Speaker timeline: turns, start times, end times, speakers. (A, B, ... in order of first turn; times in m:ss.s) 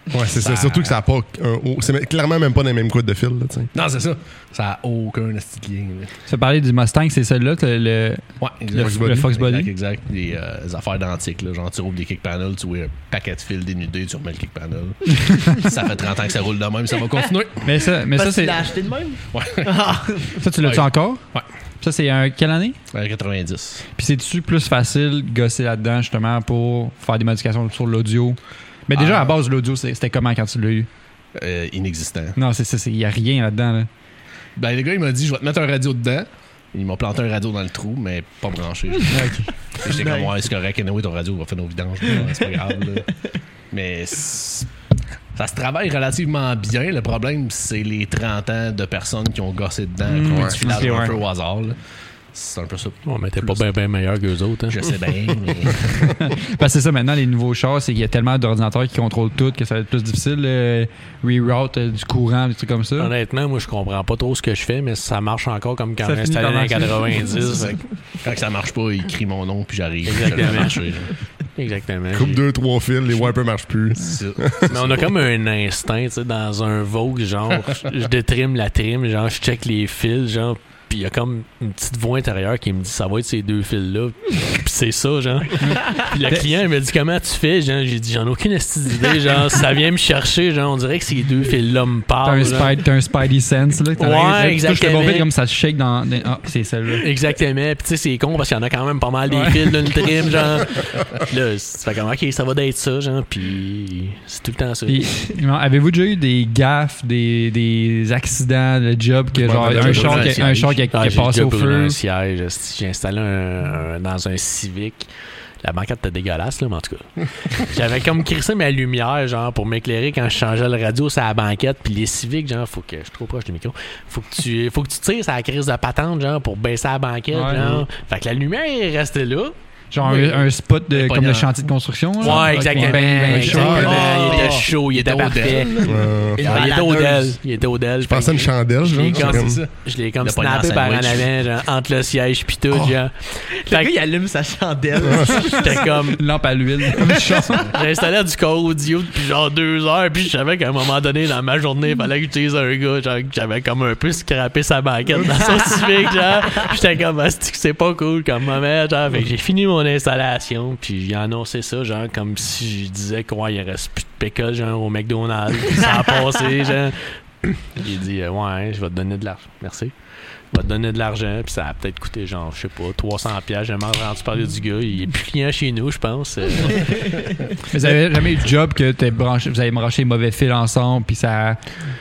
0:00.1-0:03.7 A
0:00.3-0:01.0 B
0:03.7-0:06.1 B
0:06.3-0:09.7 C
0:08.4-0:17.7 B
0:08.8-0:09.3 A
0:17.6-0:18.6 C
0:18.1-0:20.4 D
0:19.3-0:20.0 B
0:20.4-0:21.3 C
0:20.6-0:21.5 B
0:21.8-0:22.8 C
0:22.9-0:23.8 B
0:24.0-0:30.9 C
0:29.0-0:29.4 B
0:31.4-0:32.4 B
0:32.4-0:33.9 C
0:34.6-0:43.1 B
0:39.1-0:39.5 C
0:39.8-0:40.3 D
0:42.2-0:42.5 D
0:43.7-0:44.7 B
0:45.4-0:51.8 B
0:50.0-0:51.2 C
0:50.3-0:50.7 A
0:52.3-0:53.7 B
0:53.1-0:55.0 E
0:54.7-0:56.2 B
0:56.2-1:03.1 C
1:03.0-1:07.9 E
1:06.0-1:07.6 C
1:08.2-1:11.1 B
1:10.0-1:12.4 E
1:12.1-1:14.7 A
1:14.0-1:15.2 B
1:14.7-1:32.8 E
1:25.6-1:26.4 C
1:32.2-1:37.1 C
1:34.0-1:35.3 E
1:37.0-1:45.1 E
1:39.3-1:39.9 C
1:44.9-1:52.0 C
1:49.4-1:50.1 A
1:49.5-1:50.9 B
1:49.8-1:50.3 E
1:50.9-1:55.1 E
1:55.6-2:09.5 E
2:07.3-2:07.8 C
2:09.9-2:14.1 C
2:10.0-2:11.6 B
2:12.2-2:23.9 E
2:12.2-2:16.8 B
2:13.5-2:14.1 A
2:13.7-2:14.7 D
2:15.8-2:16.4 A
2:16.4-2:17.4 D
2:18.0-2:19.6 A
2:18.9-2:21.3 B
2:23.7-2:25.9 D
2:25.0-2:25.6 A
2:25.3-2:26.4 E
2:26.1-2:27.7 C
2:27.0-2:27.5 D
2:27.6-2:49.9 E
2:50.5-2:57.2 E
2:57.7-3:01.6 C